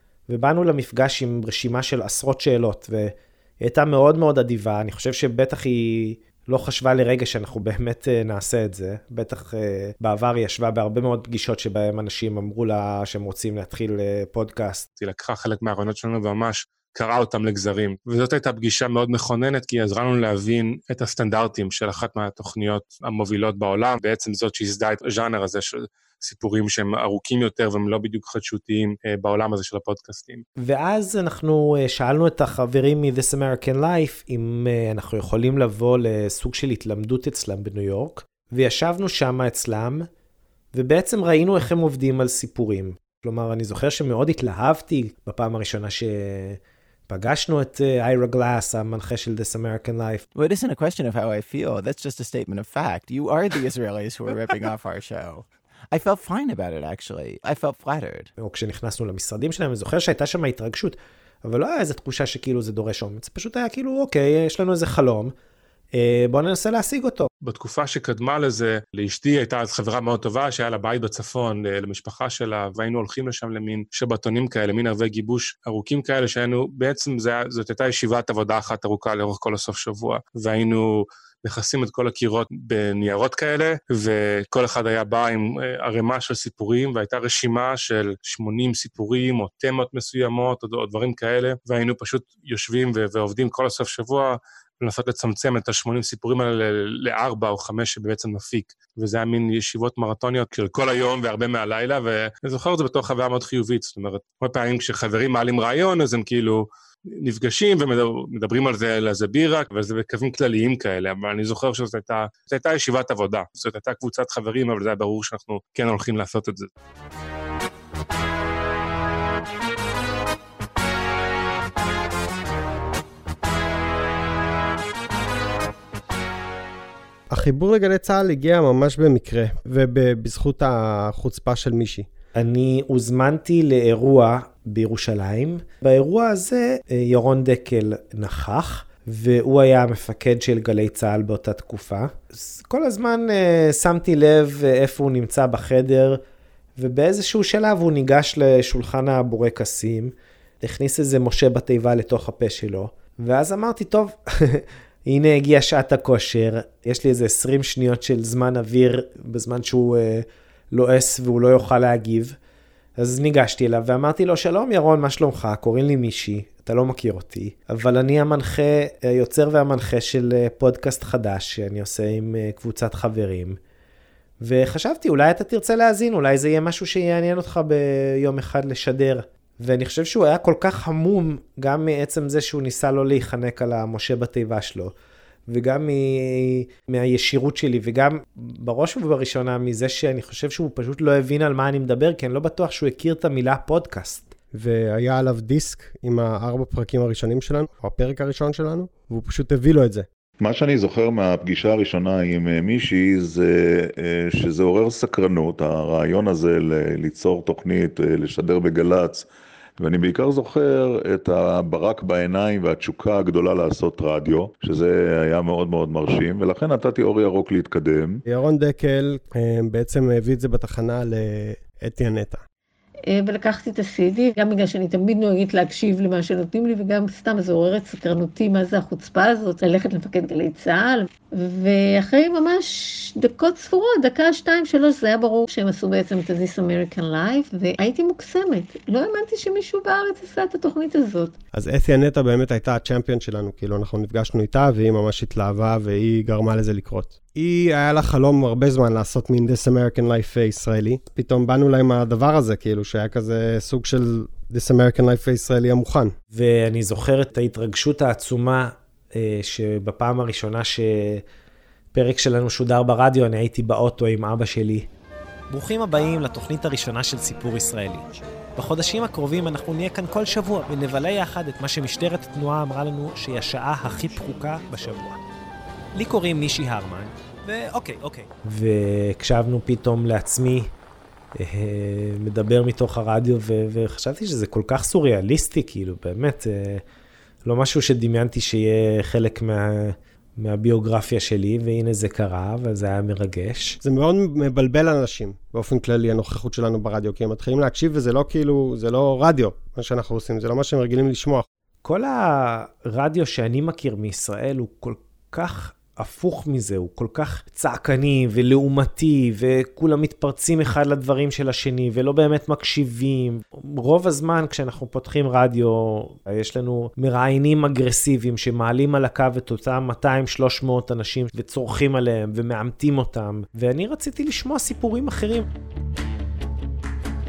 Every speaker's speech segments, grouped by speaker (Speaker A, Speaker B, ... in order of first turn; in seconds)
Speaker A: 0.3-14.9, 30.6-40.1, 40.7-50.3, 58.4-65.3, 66.0-67.3, 132.4-146.2, 146.8-162.4, 163.0-173.6, 174.4-184.9, 185.5-194.3, 256.3-261.2, 261.9-264.9, 265.5-268.1, 268.6-275.2, 275.9-280.7, 281.4-286.8, 287.4-293.8, 301.9-325.5
Speaker B: 15.0-30.4, 67.4-106.7, 107.2-116.7
Speaker C: 50.4-58.3
Speaker D: 127.3-132.1, 194.5-200.1, 218.3-222.4, 241.5-256.1, 293.8-301.5
Speaker E: 200.4-209.3, 209.8-218.2
Speaker F: 223.1-241.3